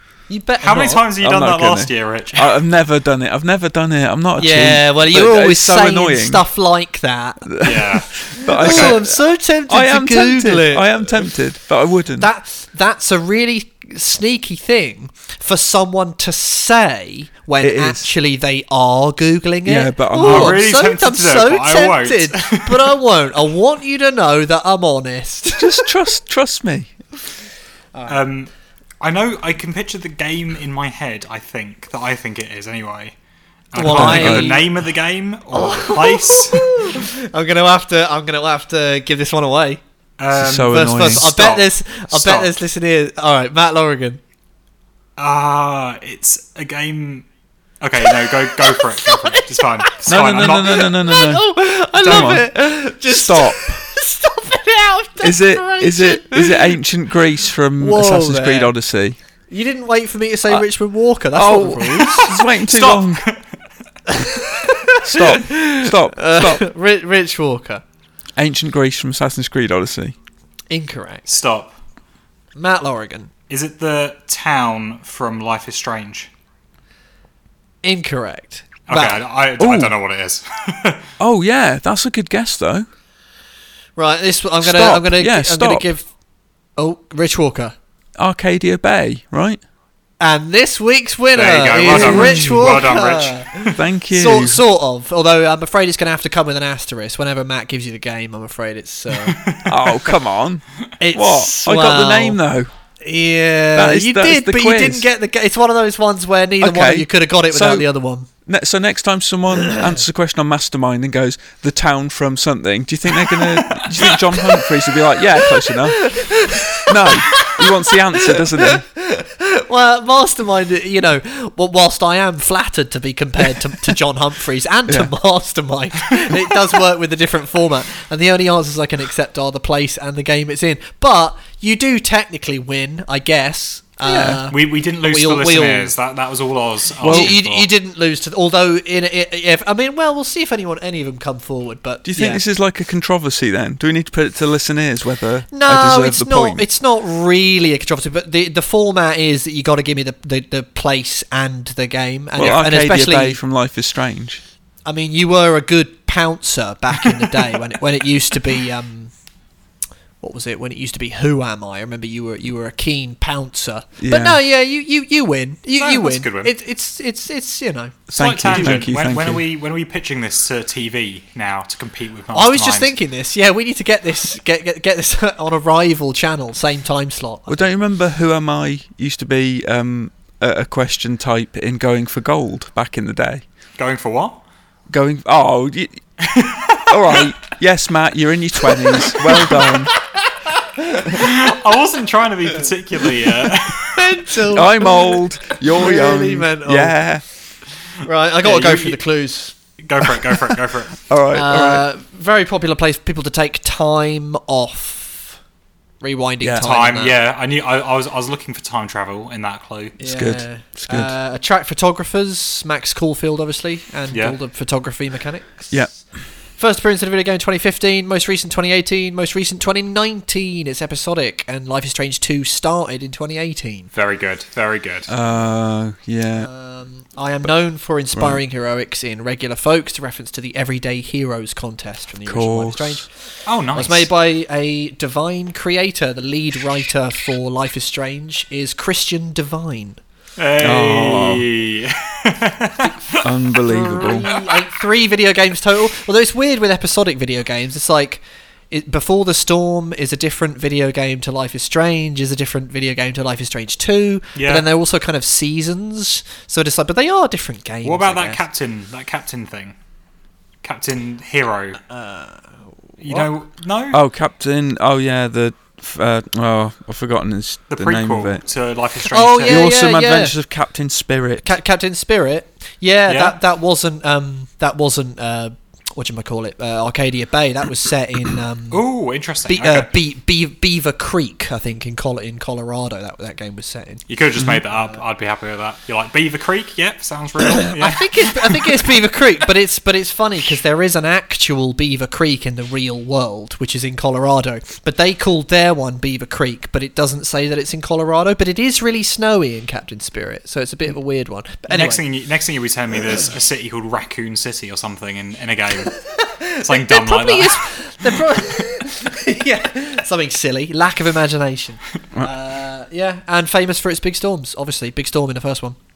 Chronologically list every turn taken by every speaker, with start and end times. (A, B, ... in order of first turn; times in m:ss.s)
0:00.3-0:01.1 A
0:00.6-0:02.6 B
0:01.2-0:06.4 C
0:04.4-0:11.2 A
0:07.4-0:09.2 C
0:07.6-0:09.0 B
0:09.7-0:12.3 C
0:12.2-0:25.8 A
0:17.6-0:18.1 C
0:19.6-0:20.6 C
0:20.2-0:23.0 B
0:25.5-0:26.9 C
0:27.9-0:28.2 A
0:28.1-0:33.1 B
0:33.7-0:37.0 B
0:33.8-0:34.7 A
0:33.8-0:34.6 C
0:35.5-0:39.8 A
0:40.2-0:42.5 B
0:40.3-0:41.3 C
0:40.6-0:44.2 A
0:45.2-0:47.3 B
0:47.8-0:50.9 B
0:48.2-0:56.8 A
0:50.0-0:53.8 C
0:52.0-0:52.3 B
0:55.2-0:59.2 C
0:57.8-0:58.7 A
0:59.5-1:02.3 A
1:01.3-1:03.3 C
1:02.1-1:03.5 B
1:04.1-1:07.8 A
1:05.0-1:06.6 C
1:08.4-1:10.1 C
1:10.7-1:11.3 A
1:11.3-1:11.7 B
1:12.6-1:13.3 A
1:13.5-1:16.3 B
1:17.8-1:19.2 A
1:18.9-1:21.1 B
1:19.6-1:19.9 C
1:21.2-1:22.9 C
1:24.0-1:26.1 A
1:24.6-1:25.9 C
1:26.8-1:27.7 A
1:28.2-1:29.6 C
1:30.2-1:39.4 A
1:31.3-1:33.5 B
1:31.9-1:32.7 C
1:33.7-1:34.6 C
1:39.1-1:40.1 B
1:39.6-1:42.7 C
1:41.0-1:42.4 A
1:43.0-1:48.3 A
1:43.7-1:45.1 C
1:46.6-1:47.9 C
1:48.4-1:58.8 C
1:53.3-1:54.3 B
1:55.7-2:15.9 A
2:14.0-2:14.4 C
2:14.5-2:17.7 B
2:17.0-2:17.3 C
2:17.0-2:22.4 A
2:22.0-2:26.6 C
2:25.5-2:33.4 A
2:32.4-2:34.4 C
2:34.8-2:39.1 A
2:40.2-2:48.8 A
2:44.0-2:44.4 C
2:45.8-2:46.5 B
2:48.1-2:49.4 C
2:48.1-2:52.9 B
2:52.3-2:57.7 A
2:57.5-3:03.4 C
3:03.8-3:04.4 B
3:04.9-3:06.0 C
3:06.2-3:07.2 B
3:06.9-3:09.9 C
3:10.3-3:11.3 A
3:11.1-3:14.1 B
3:13.9-3:17.0 A
3:14.5-3:17.2 C
3:18.0-3:19.5 A
3:18.4-3:19.0 B
3:19.8-3:21.0 B
3:21.0-3:21.8 C
3:21.3-3:25.4 A
3:26.0-3:27.2 A
3:26.4-3:26.7 C
3:26.6-3:30.0 B
3:30.0-3:35.9 A
3:30.0-3:31.1 C
3:34.1-3:34.4 B
3:36.6-3:43.9 A
3:43.9-3:45.1 B
3:45.1-3:46.5 C
3:46.4-4:00.0 A
3:48.1-3:48.4 C
3:52.2-3:53.0 C
3:53.4-3:54.1 B
4:00.4-4:03.3 B
4:00.6-4:01.5 C
4:03.2-4:04.3 C
4:03.6-4:18.4 A
4:03.9-4:04.5 B
4:14.4-4:14.7 B
4:17.8-4:19.7 B
4:20.6-4:21.8 B
4:21.9-4:23.2 A
4:23.0-4:24.0 B
4:23.9-4:28.4 C
4:27.7-4:29.7 B
4:29.1-4:30.3 A
4:29.4-4:31.6 C
4:31.4-4:38.8 A
4:33.1-4:33.4 B
4:38.7-4:39.9 B
4:39.5-4:44.0 A
4:44.1-4:48.9 B
4:44.7-4:45.0 A
4:47.5-5:02.0 A
5:01.7-5:06.0 B
5:05.9-5:15.8 A
5:06.6-5:08.2 B